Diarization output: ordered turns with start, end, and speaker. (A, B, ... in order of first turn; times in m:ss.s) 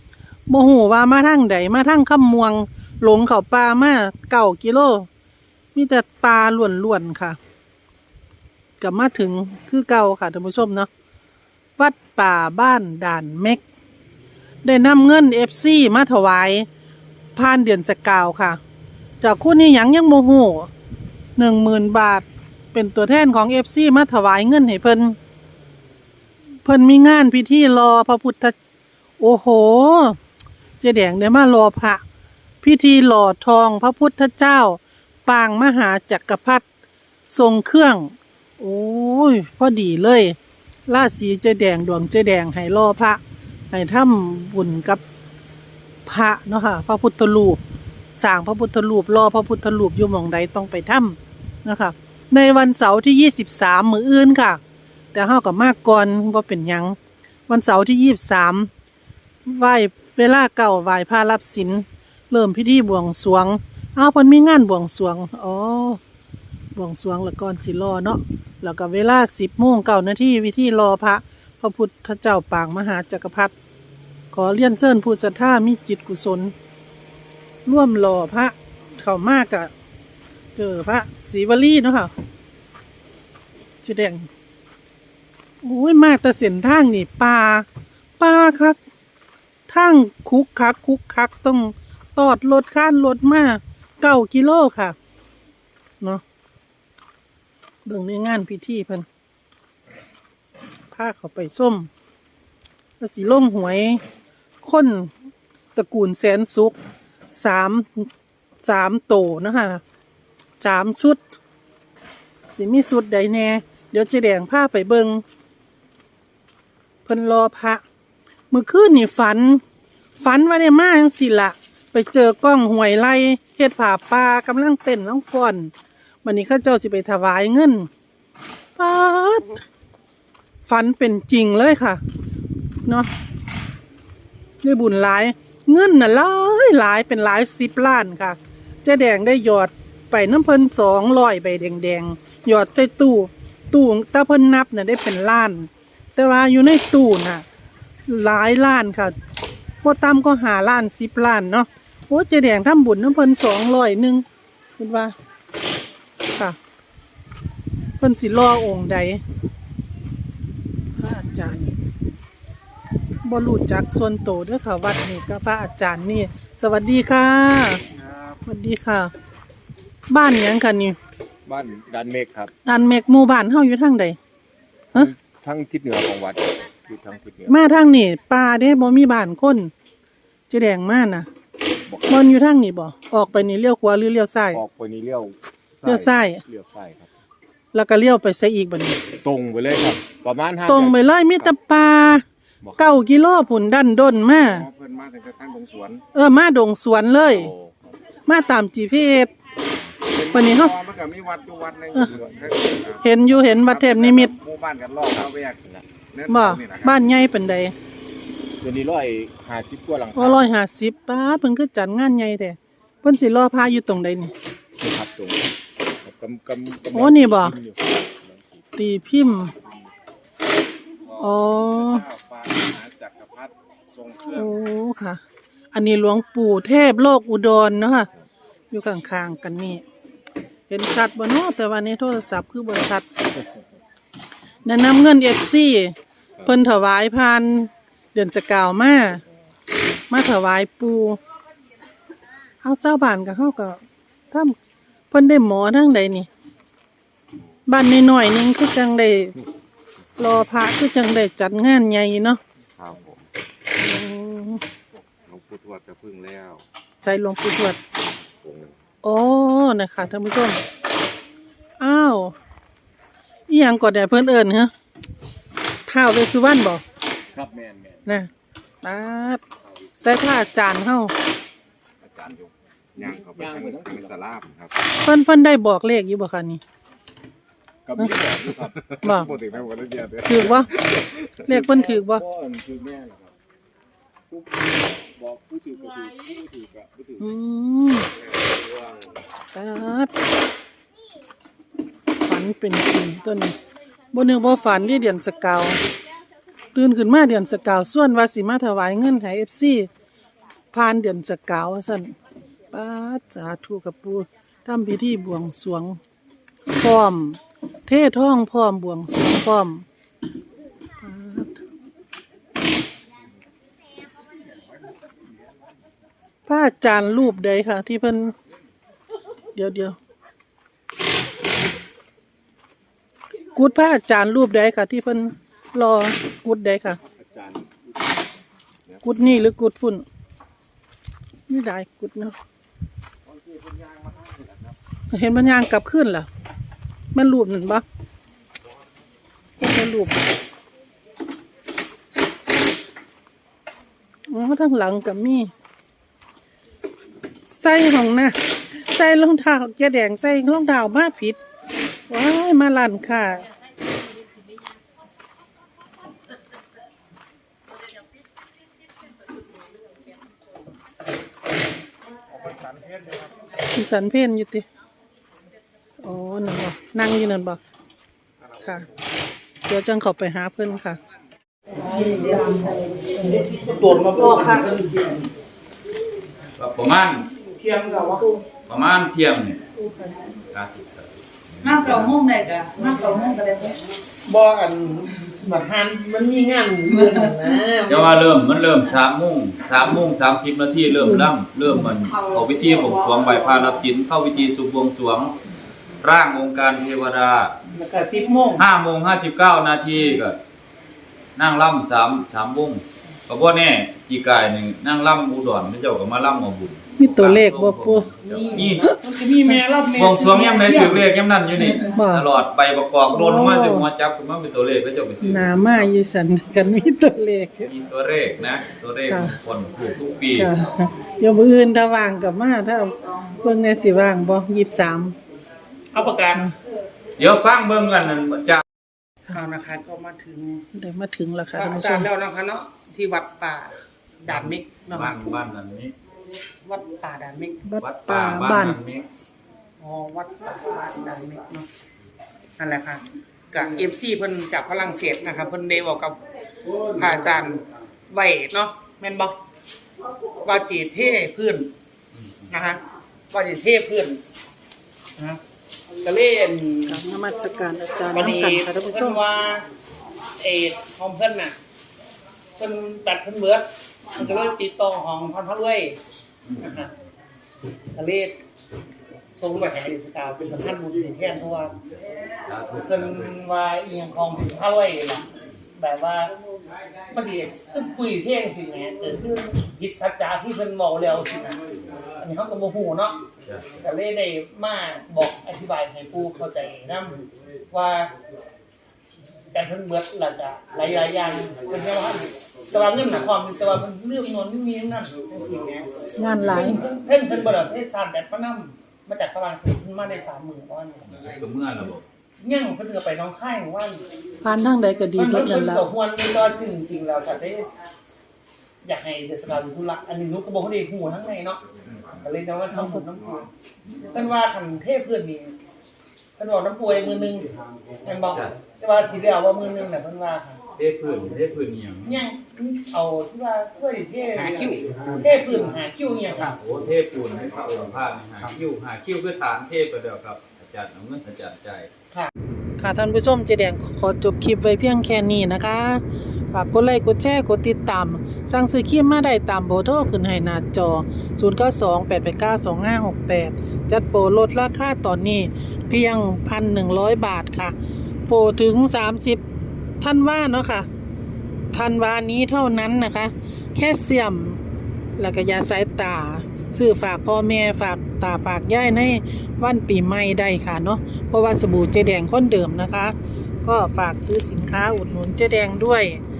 0:00.5-0:05.1 A
0:05.7-0:07.4 A
0:08.8-0:10.9 A
0:11.8-0:13.6 A
0:14.6-0:16.7 A
0:17.4-0:18.6 A
0:19.2-0:20.7 A
0:21.4-0:25.2 A
0:26.6-0:28.6 A
0:29.2-0:30.2 A
0:30.8-0:32.0 A
0:32.6-0:36.6 A
0:37.3-0:40.4 A
0:40.9-0:43.2 A
0:43.7-0:45.0 A
0:46.0-0:47.6 A
0:48.2-0:54.6 A
0:55.1-0:57.0 A
0:57.5-0:58.7 A
0:59.4-1:06.0 A
1:06.7-1:13.5 A
1:14.3-1:16.5 A
1:17.6-1:19.7 A
1:20.5-1:22.1 A
1:23.8-1:24.3 A
1:25.6-1:27.6 A
1:28.2-1:28.8 A
1:29.7-1:34.9 A
1:37.8-1:39.0 A
1:40.9-1:41.9 A
1:43.0-1:44.0 A
1:44.6-1:45.1 A
1:45.7-1:46.8 A
1:47.3-1:48.1 A
1:48.6-1:49.8 A
1:50.6-1:51.2 A
1:52.5-1:55.2 A
1:57.0-1:57.8 A
1:58.5-1:59.6 A
2:00.2-2:05.7 A
2:06.2-2:07.9 A
2:08.8-2:09.6 A
2:10.6-2:12.0 A
2:14.6-2:27.4 A
2:28.1-2:29.2 A
2:29.8-2:34.2 A
2:34.8-2:35.1 A
2:38.0-2:39.2 A
2:41.0-2:41.7 A
2:43.2-2:47.8 A
2:48.4-2:49.1 A
2:50.1-2:51.0 A
2:51.4-2:52.5 B
2:52.6-2:54.2 A
2:54.9-2:57.6 B
2:57.5-2:59.7 A
3:00.5-3:01.3 A
3:02.1-3:04.6 A
3:04.5-3:07.1 B
3:05.8-3:06.4 A
3:07.7-3:09.0 A
3:09.2-3:11.5 B
3:10.7-3:12.2 A
3:12.6-3:13.0 B
3:12.8-3:14.7 A
3:14.5-3:16.0 C
3:16.1-3:17.5 A
3:17.3-3:17.7 B
3:18.2-3:19.3 A
3:20.1-3:27.0 C
3:20.3-3:20.7 A
3:23.0-3:24.3 A
3:25.2-3:25.9 B
3:26.3-3:27.7 A
3:28.6-3:30.5 B
3:30.1-3:34.3 A
3:34.8-3:35.5 B
3:36.0-3:38.6 B
3:36.9-3:37.5 A
3:38.8-3:39.5 A
3:41.1-3:44.5 C
3:41.2-3:42.0 A
3:44.3-3:45.2 A
3:45.7-3:48.1 A
3:48.7-3:49.8 A
3:50.7-3:53.0 A
3:54.6-3:59.2 A
4:00.1-4:01.2 A
4:02.6-4:04.6 A
4:05.1-4:06.3 A
4:07.7-4:09.3 A
4:10.2-4:12.4 A
4:12.8-4:13.2 C
4:13.8-4:14.6 A
4:15.1-4:16.6 C
4:17.0-4:17.8 A
4:19.0-4:20.6 A
4:21.8-4:22.3 A
4:23.5-4:24.7 A
4:25.9-4:26.8 A
4:27.3-4:28.1 B
4:28.8-4:29.4 A
4:30.0-4:31.1 A
4:32.0-4:34.7 C
4:33.2-4:34.3 B
4:35.0-4:36.6 A
4:37.8-4:39.4 B
4:38.3-4:41.2 C
4:39.0-4:39.3 A
4:40.3-4:40.7 A
4:41.4-4:42.2 A
4:41.5-4:43.3 B
4:44.3-4:47.2 B
4:47.2-4:48.1 A
4:48.5-4:48.9 C
4:49.5-4:50.1 A
4:52.2-4:53.6 A
4:54.1-4:55.8 A
4:56.7-4:59.9 A
5:00.7-5:02.1 A
5:02.7-5:06.0 A
5:06.7-5:09.8 A
5:11.0-5:11.6 A
5:16.5-5:18.3 A
5:19.5-5:20.0 A
5:23.5-5:27.0 A
5:27.2-5:28.2 B
5:29.0-5:30.0 A
5:31.5-5:32.4 A
5:33.3-5:34.7 C
5:35.1-5:36.3 A
5:37.1-5:37.8 A
5:39.6-5:40.2 A
5:44.3-5:45.5 A
5:47.5-5:51.4 A
5:52.1-5:53.4 A
6:02.4-6:03.3 C
6:03.7-6:04.6 A
6:06.0-6:07.6 A
6:08.6-6:08.8 A
6:09.7-6:11.0 A
6:11.7-6:15.3 D
6:11.9-6:13.0 E
6:14.2-6:14.6 A
6:16.6-6:17.3 F
6:17.4-6:18.4 D
6:18.6-6:19.6 F
6:19.8-6:20.2 E
6:20.5-6:22.2 F
6:21.6-6:23.8 E
6:24.2-6:28.2 D
6:27.9-6:35.4 F
6:30.9-6:31.3 A
6:32.0-6:33.7 E
6:36.0-6:37.5 F
6:37.7-6:38.6 D
6:38.6-6:40.4 F
6:41.4-6:48.9 F
6:47.0-6:48.1 A
6:48.2-6:51.0 D
6:50.0-6:55.8 F
6:51.9-6:52.3 A
6:53.1-6:53.9 A
6:55.2-6:57.7 A
6:57.6-7:00.5 F
6:59.1-6:59.3 A
7:00.3-7:05.1 A
7:05.9-7:06.5 D
7:07.2-7:08.6 F
7:09.3-7:10.6 D
7:10.7-7:12.1 A
7:11.5-7:15.2 D
7:14.3-7:15.9 F
7:16.6-7:17.6 D
7:17.6-7:18.8 A
7:17.8-7:19.0 F
7:19.8-7:21.7 D
7:22.6-7:26.2 D
7:26.8-7:29.3 D
7:30.4-7:31.7 D
7:32.1-7:32.5 F
7:32.5-7:34.2 D
7:36.0-7:37.0 D
7:36.9-7:39.2 A
7:38.1-7:39.6 D
7:40.4-7:41.6 D
7:42.6-7:46.0 D
7:46.4-7:46.8 F
7:46.6-7:46.9 D
7:47.9-7:48.4 D
7:49.4-7:51.7 D
7:51.9-7:53.3 F
7:52.8-7:56.3 D
7:57.1-8:01.6 D
8:02.2-8:03.2 D
8:03.4-8:03.8 F
8:03.8-8:08.1 D
8:09.5-8:15.9 D
8:16.2-8:16.8 A
8:16.4-8:21.3 D
8:21.0-8:22.0 F
8:22.4-8:24.0 D
8:24.4-8:25.9 A
8:25.2-8:27.7 D
8:28.8-8:31.6 D
8:32.1-8:33.5 D
8:32.7-8:33.0 A
8:34.1-8:35.5 D
8:36.4-8:37.5 D
8:38.0-8:40.6 D
8:40.7-8:42.2 F
8:42.0-8:46.6 D
8:44.4-8:45.0 E
8:46.6-8:51.9 F
8:52.8-9:07.7 A
9:08.3-9:09.4 A
9:10.0-9:10.9 A
9:11.7-9:14.6 A
9:15.2-9:26.2 A